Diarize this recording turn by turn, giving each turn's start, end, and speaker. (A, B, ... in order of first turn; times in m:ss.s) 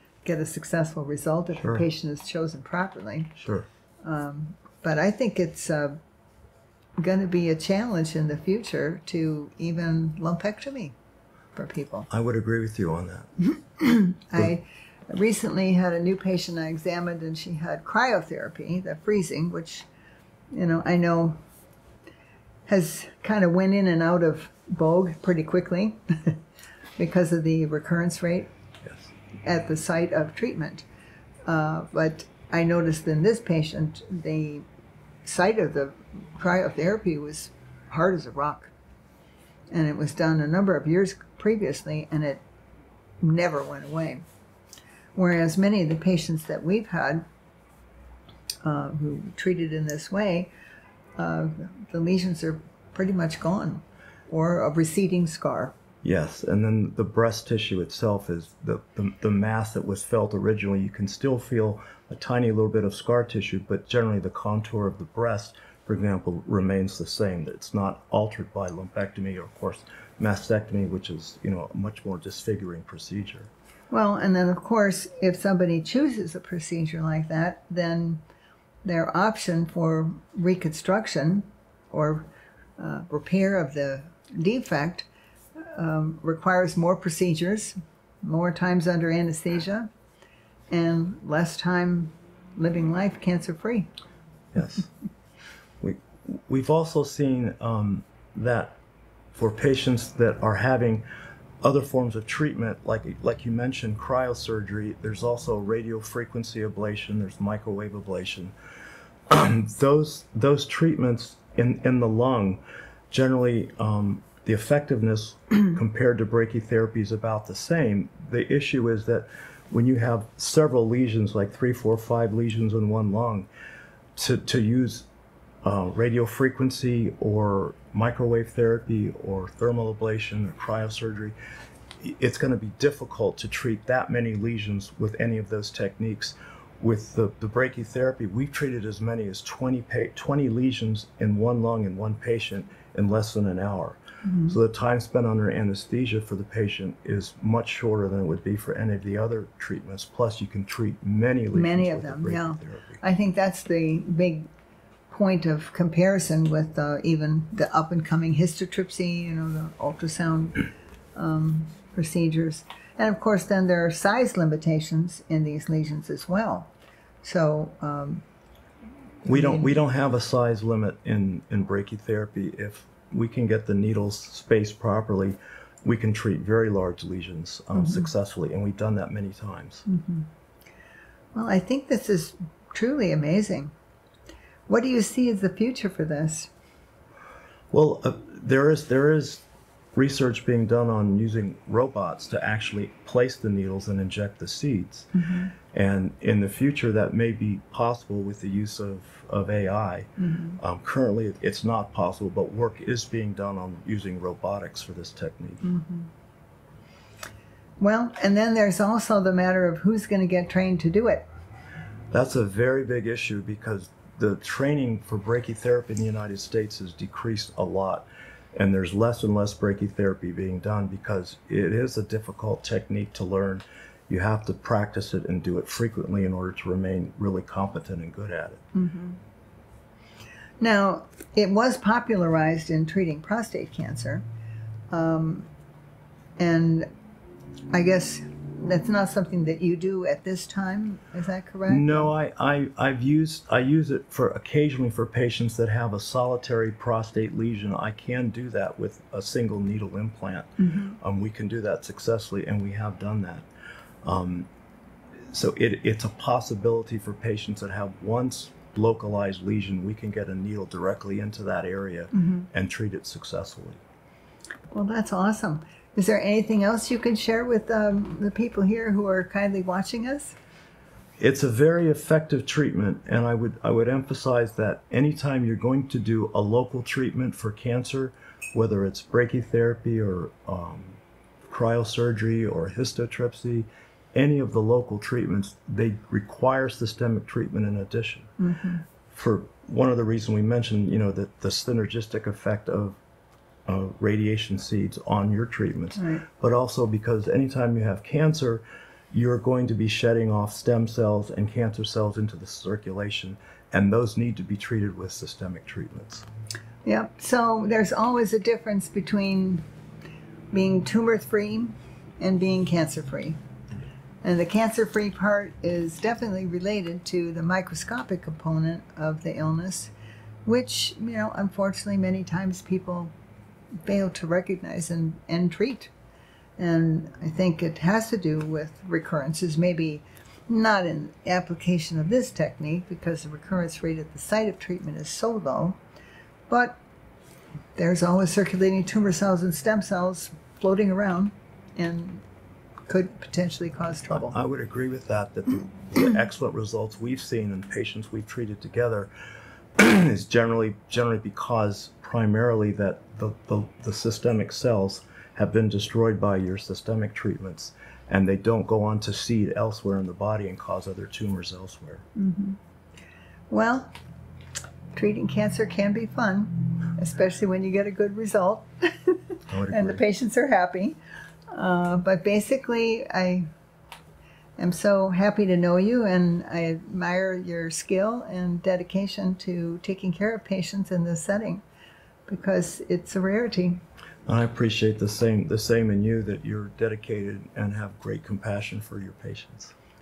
0:00.2-0:03.4 A
0:01.5-0:01.8 B
0:03.4-0:03.7 B
0:04.0-0:06.0 A
0:07.0-0:10.9 A
0:11.5-0:12.1 A
0:12.1-0:13.3 B
0:13.8-0:19.9 A
0:20.5-0:21.4 A
0:22.7-0:26.4 A
0:27.0-0:28.5 A
0:29.4-0:30.8 A
0:31.5-0:34.6 A
0:35.2-0:38.7 A
0:39.7-0:42.4 A
0:43.2-0:44.2 A
0:45.1-0:47.2 A
0:48.6-0:50.5 A
0:51.2-0:55.7 A
0:56.0-1:13.5 B
1:13.9-1:18.2 A
1:18.8-1:25.1 A
1:25.6-1:29.9 A
1:30.7-1:33.9 A
1:34.5-1:34.9 B
1:35.8-1:38.8 B
1:39.3-1:41.0 B
1:41.6-1:48.5 B
1:49.3-2:03.5 B
2:04.2-2:05.1 B
2:05.6-2:11.3 B
2:12.0-2:33.0 B
2:24.2-2:24.6 A
2:31.5-2:34.5 A
2:35.1-2:46.7 A
2:47.2-2:48.2 A
2:49.2-2:49.7 A
2:49.2-2:59.8 B
2:57.7-2:58.1 A
2:59.9-3:00.3 A
3:01.3-3:03.7 A
3:04.7-3:06.5 A
3:07.7-3:09.4 B
3:09.9-3:15.1 B
3:15.2-3:15.5 A
3:15.7-3:25.7 B
3:20.2-3:20.6 A
3:25.6-3:26.1 A
3:27.8-3:31.3 A
3:32.1-3:48.6 B
3:48.7-3:49.2 A
3:50.6-3:54.2 A
3:54.9-3:55.5 A
3:56.4-3:56.9 A
3:57.7-4:02.1 A
4:01.7-4:10.5 B
4:10.6-4:11.0 A
4:11.0-4:13.4 B
4:14.0-4:14.5 B
4:15.3-4:23.8 B
4:22.1-4:22.5 A
4:24.7-4:30.4 A
4:31.2-4:48.3 B
4:48.4-4:48.8 A
4:49.1-4:53.0 B
4:53.7-5:06.2 B
4:56.0-4:56.2 A
5:06.8-5:09.6 A
5:10.5-5:13.4 A
5:14.2-5:19.9 A
5:20.4-5:23.1 A
5:23.8-5:25.9 A
5:26.6-5:35.8 A
5:36.5-5:36.8 A
5:37.8-5:42.2 A
5:42.9-5:44.4 A
5:44.1-5:49.1 B
5:49.8-6:02.0 B
6:02.2-6:02.6 A
6:03.5-6:03.9 A
6:04.9-6:11.0 A
6:09.5-6:10.0 B
6:11.5-6:13.5 A
6:14.6-6:21.6 A
6:22.3-6:23.8 A
6:24.2-6:29.7 B